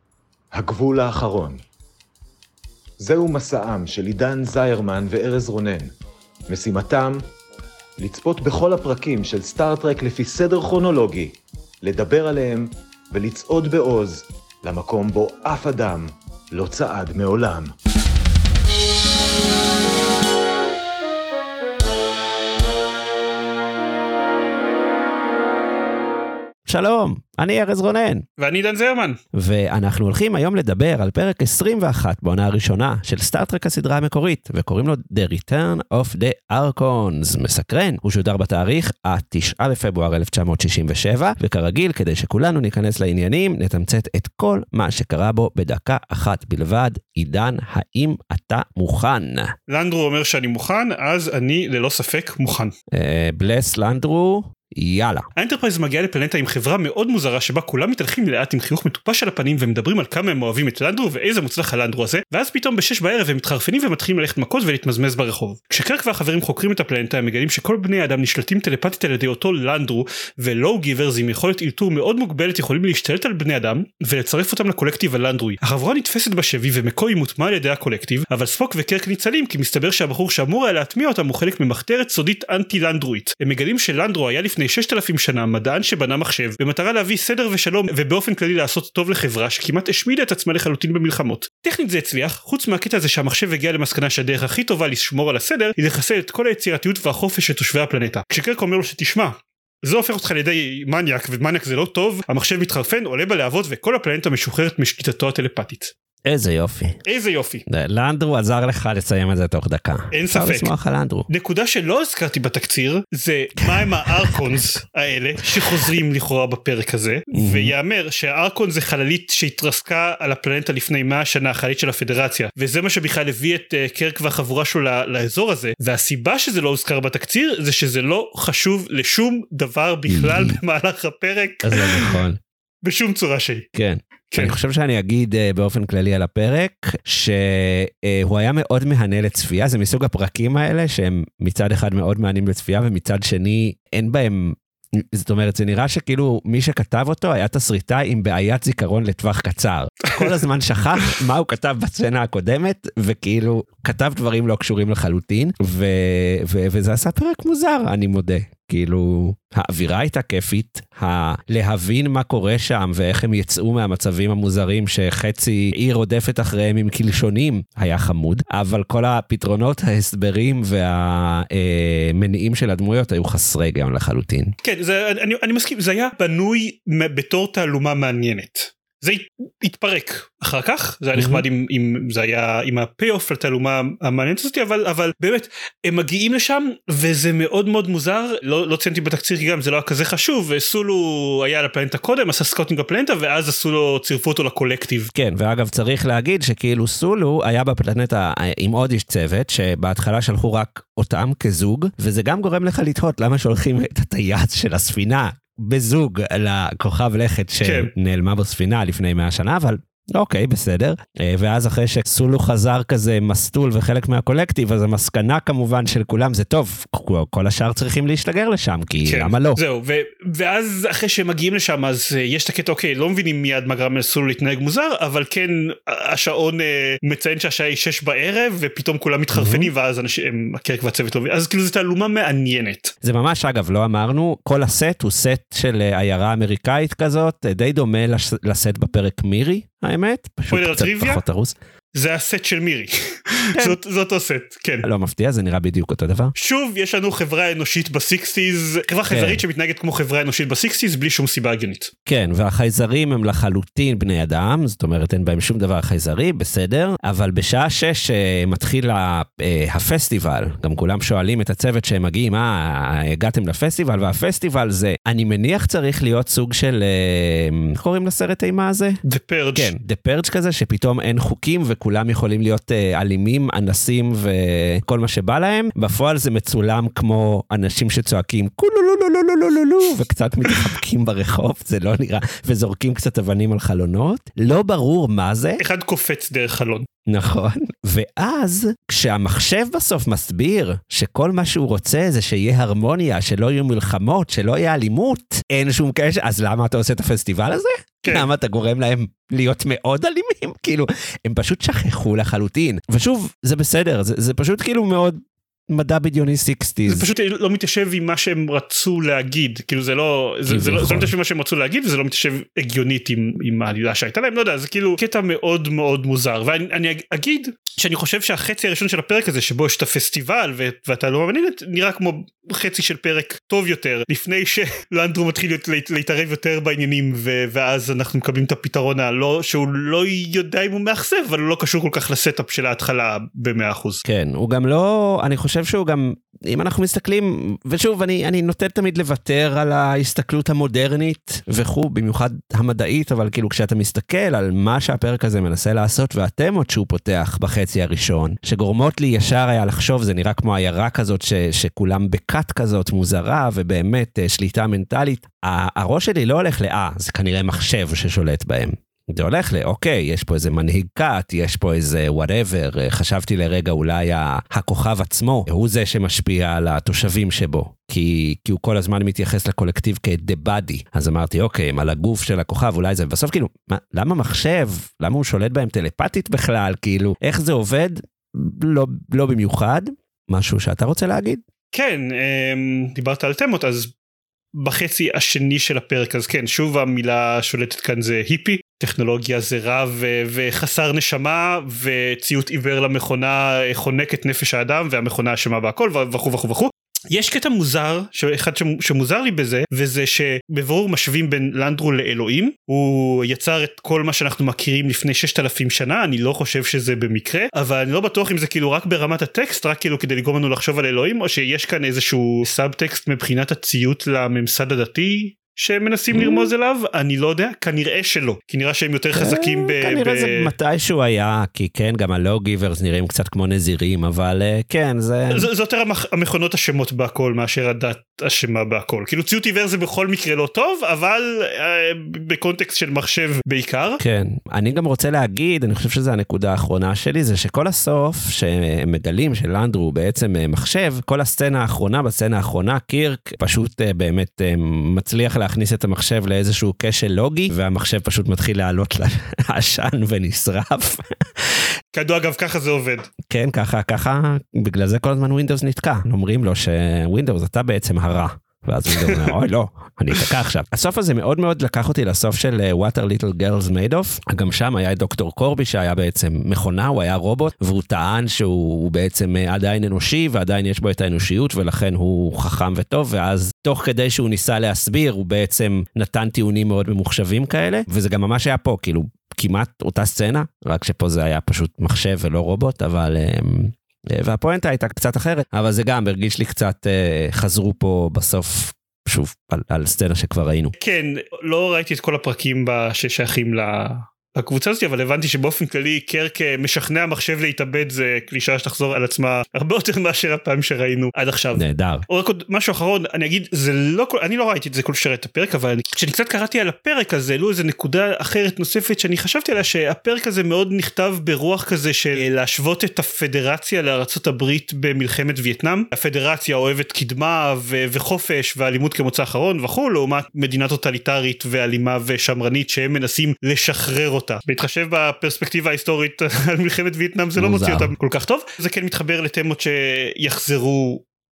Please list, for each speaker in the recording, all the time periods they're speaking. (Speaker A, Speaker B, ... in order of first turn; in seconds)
Speaker A: 0.5-1.6, 3.0-5.9, 6.5-7.2, 8.0-17.7
Speaker B: 26.7-28.2, 29.4-49.5, 52.9-55.3, 106.3-107.0, 107.7-111.3, 113.6-114.6, 115.6-115.9, 117.3-117.7, 130.1-130.6, 131.6-132.4, 133.8-174.6, 181.2-181.4, 195.2-219.6, 229.3-229.7, 233.0-241.6, 244.8-246.3, 249.1-249.4, 252.1-269.0, 269.6-285.6, 287.1-305.2, 305.7-307.1, 310.5-311.1, 334.1-381.4, 416.1-416.5, 419.1-425.5, 434.0-451.5, 453.3-490.7, 501.5-502.0, 527.4-527.9
Speaker C: 28.4-29.2, 49.7-52.7, 55.4-105.9, 107.0-107.6, 110.1-110.7, 111.3-132.2, 132.8-133.7, 134.3-134.6, 150.1-150.4, 151.0-151.2, 174.6-195.1, 207.6-207.9, 219.0-232.9, 240.5-241.2, 241.9-244.9, 246.4-251.9, 269.0-269.7, 285.6-286.9, 306.9-334.0, 381.7-383.9, 384.6-420.5, 425.3-434.0, 451.9-453.1, 458.9-459.4, 490.8-531.0